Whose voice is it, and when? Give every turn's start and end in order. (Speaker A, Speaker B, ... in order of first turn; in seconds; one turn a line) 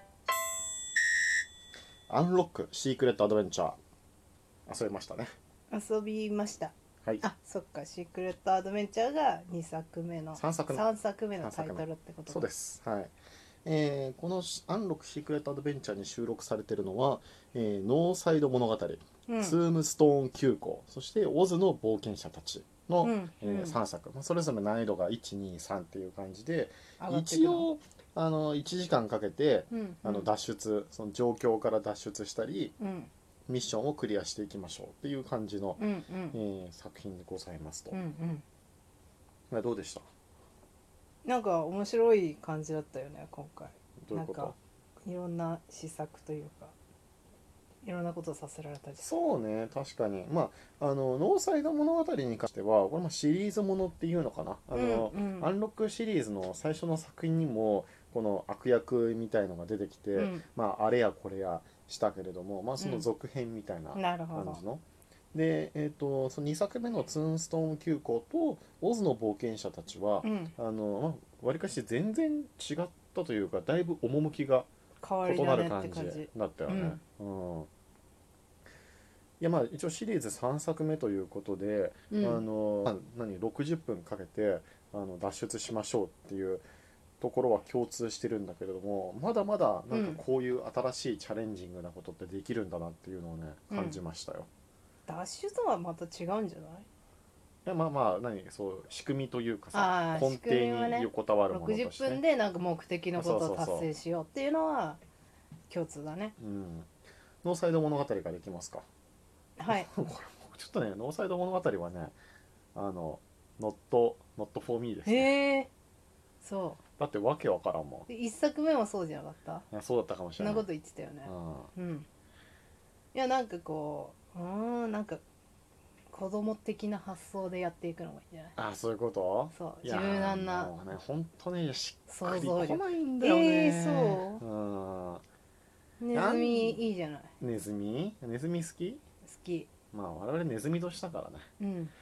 Speaker A: 2.1-3.8
Speaker A: 4.7-5.3
Speaker B: 5.7-12.5
Speaker A: 10.4-10.8
Speaker A: 11.4-13.1
Speaker A: 13.7-32.8
Speaker B: 19.3-19.6
Speaker B: 23.0-23.8
Speaker B: 27.0-27.7
Speaker B: 29.7-30.3
Speaker B: 32.8-33.1
Speaker A: 33.5-38.0
Speaker B: 35.8-36.4
Speaker B: 37.9-38.4
Speaker A: 39.5-40.1
Speaker B: 41.2-46.7
Speaker A: 44.0-44.5
Speaker B: 47.8-49.1
Speaker A: 49.0-74.7
Speaker B: 54.7-55.5
Speaker B: 60.1-60.5
Speaker B: 62.8-63.1
Speaker B: 64.0-64.6
Speaker B: 70.2-70.5
Speaker B: 75.0-77.0
Speaker A: 75.2-77.7
Speaker A: 79.4-86.7
Speaker B: 82.1-82.4
Speaker A: 87.2-94.5
Speaker B: 89.9-90.2
Speaker B: 93.7-94.0
Speaker B: 95.1-96.9
Speaker A: 97.7-102.2
Speaker B: 99.7-105.0
Speaker A: 103.2-103.9
Speaker B: 105.7-106.3
Speaker A: 106.4-106.9
Speaker A: 107.4-108.9
Speaker B: 109.6-109.9
Speaker A: 109.7-112.2
Speaker A: 112.8-115.3
Speaker B: 115.1-115.7
Speaker B: 116.4-116.8
Speaker A: 117.0-118.1
Speaker B: 118.1-119.7
Speaker A: 119.7-120.7
Speaker B: 120.4-122.1
Speaker A: 121.2-121.7
Speaker B: 123.1-125.2
Speaker B: 126.1-128.6
Speaker A: 128.6-135.2
Speaker B: 129.5-130.7
Speaker B: 132.1-134.4
Speaker B: 136.0-137.3
Speaker A: 136.1-136.8
Speaker A: 137.4-139.0
Speaker B: 139.2-139.7
Speaker A: 139.9-141.5
Speaker B: 141.6-141.9